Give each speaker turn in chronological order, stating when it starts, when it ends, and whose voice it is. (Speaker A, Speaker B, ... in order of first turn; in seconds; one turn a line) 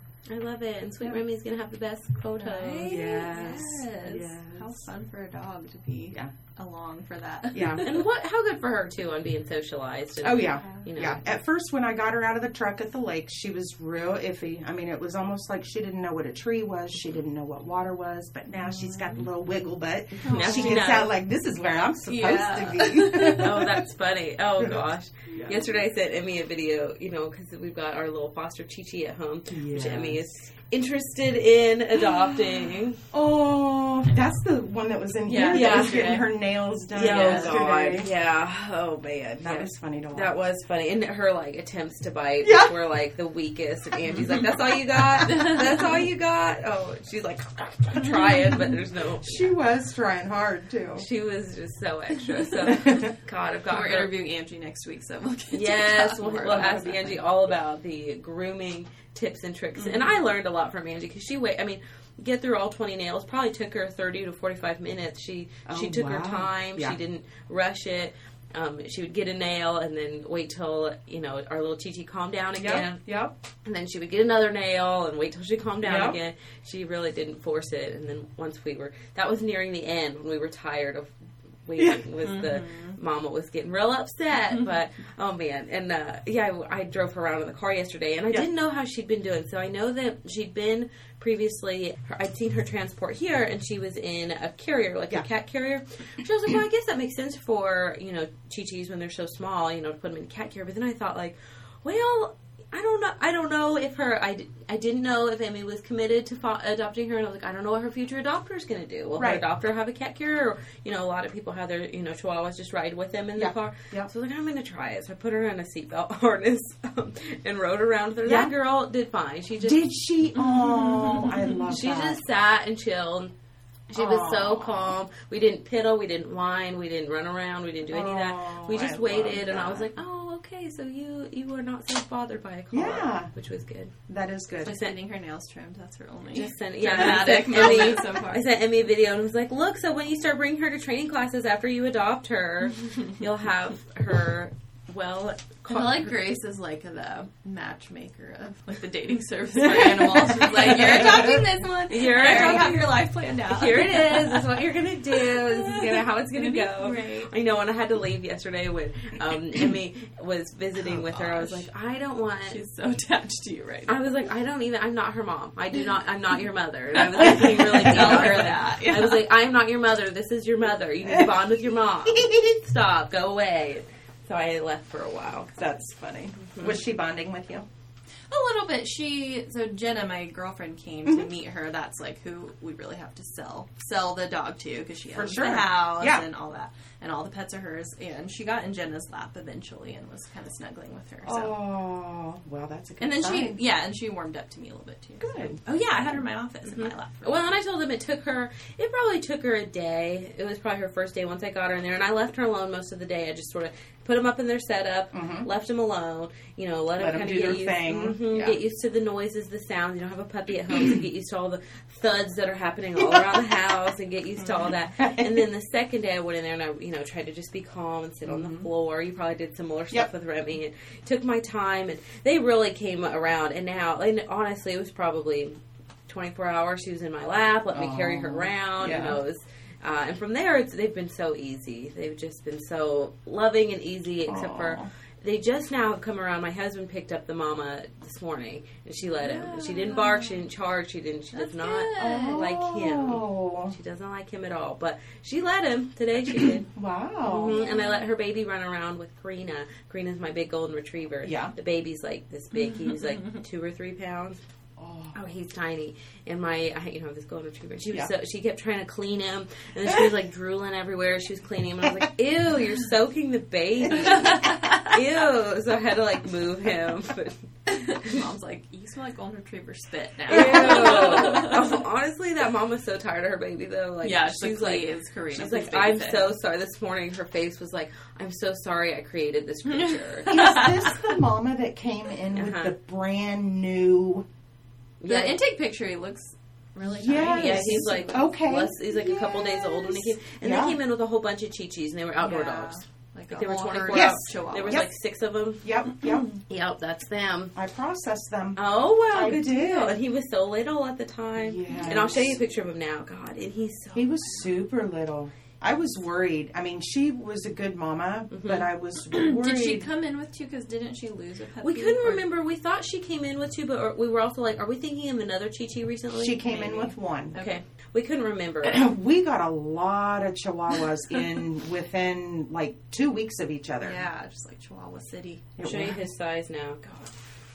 Speaker A: 0.3-2.9
Speaker B: 2.4-8.0
Speaker C: 2.9-4.7
Speaker C: 7.5-7.9
Speaker A: 7.8-11.2
Speaker C: 10.2-23.8
Speaker B: 18.6-19.2
Speaker A: 20.2-21.1
Speaker B: 20.2-21.0
Speaker B: 22.1-23.6
Speaker A: 23.3-33.0
Speaker C: 24.6-25.6
Speaker C: 29.5-30.2
Speaker C: 33.1-38.1
Speaker B: 35.3-36.3
Speaker A: 35.5-36.2
Speaker B: 36.9-37.6
Speaker A: 36.9-49.5
Speaker C: 39.4-40.3
Speaker C: 42.4-42.7
Speaker B: 45.3-45.7
Speaker C: 48.1-51.1
Speaker A: 50.9-54.1
Speaker C: 52.7-53.1
Speaker B: 53.7-57.1
Speaker A: 55.5-73.0
Speaker C: 65.7-67.0
Speaker C: 72.6-73.3
Speaker A: 73.6-81.1
Speaker C: 75.8-76.2
Speaker A: 81.7-119.8
Speaker C: 81.8-82.0
Speaker B: 82.2-83.0
Speaker C: 109.2-109.4
Speaker C: 113.4-114.1
Speaker C: 118.2-118.5
Speaker C: 119.6-122.2
Speaker B: 120.6-121.6
Speaker A: 121.7-123.3
Speaker A: 123.9-133.9
Speaker C: 124.0-125.0
Speaker C: 127.9-129.9
Speaker C: 132.7-133.3
Speaker C: 134.1-134.7
Speaker B: 134.6-138.4
Speaker A: 134.7-134.9
Speaker A: 136.3-146.0
Speaker C: 136.9-137.8
Speaker B: 145.7-154.5
Speaker C: 150.3-151.4
Speaker A: 150.3-151.3
Speaker A: 151.9-162.6
Speaker C: 152.2-152.7
Speaker B: 155.3-157.3
Speaker C: 160.9-161.5
Speaker B: 162.5-164.0
Speaker A: 163.9-175.5
Speaker B: 166.9-169.3
Speaker C: 167.8-168.5
Speaker C: 171.0-171.4
Speaker C: 172.1-172.6
Speaker C: 175.6-177.7
Speaker B: 178.3-191.6
Speaker C: 185.1-186.2
Speaker C: 191.2-193.6
Speaker B: 193.0-197.5
Speaker C: 195.2-195.6
Speaker A: 196.7-246.7
Speaker C: 205.1-205.5
Speaker C: 207.0-208.6
Speaker C: 213.0-213.5
Speaker C: 214.7-215.4
Speaker C: 218.2-218.7
Speaker C: 227.7-229.2
Speaker C: 234.3-234.9
Speaker B: 239.2-240.4
Speaker B: 241.3-242.5
Speaker C: 242.0-243.8
Speaker C: 246.3-247.6
Speaker A: 247.2-254.4
Speaker B: 247.6-248.0
Speaker C: 251.2-251.5
Speaker B: 252.5-253.4
Speaker C: 254.8-255.2
Speaker A: 255.1-267.5
Speaker B: 264.2-264.8
Speaker B: 267.7-271.7
Speaker A: 270.3-280.4
Speaker C: 270.3-271.6
Speaker B: 274.0-276.4
Speaker B: 279.7-281.2
Speaker C: 280.3-284.3
Speaker A: 282.4-282.8
Speaker A: 285.0-285.4
Speaker B: 285.1-288.2
Speaker C: 286.9-290.8
Speaker A: 287.3-295.7
Speaker B: 292.2-294.9
Speaker C: 293.9-294.9
Speaker C: 295.6-296.3
Speaker A: 296.3-297.5
Speaker C: 297.6-298.6
Speaker A: 298.6-304.1
Speaker C: 299.1-300.0
Speaker C: 301.4-302.4
Speaker C: 303.9-309.9
Speaker A: 308.3-308.7
Speaker B: 309.1-312.2
Speaker A: 311.6-316.8
Speaker C: 316.2-317.4
Speaker B: 316.5-317.6
Speaker A: 317.3-318.9
Speaker C: 318.6-324.1
Speaker B: 323.8-325.6
Speaker C: 325.6-326.0
Speaker A: 325.6-327.0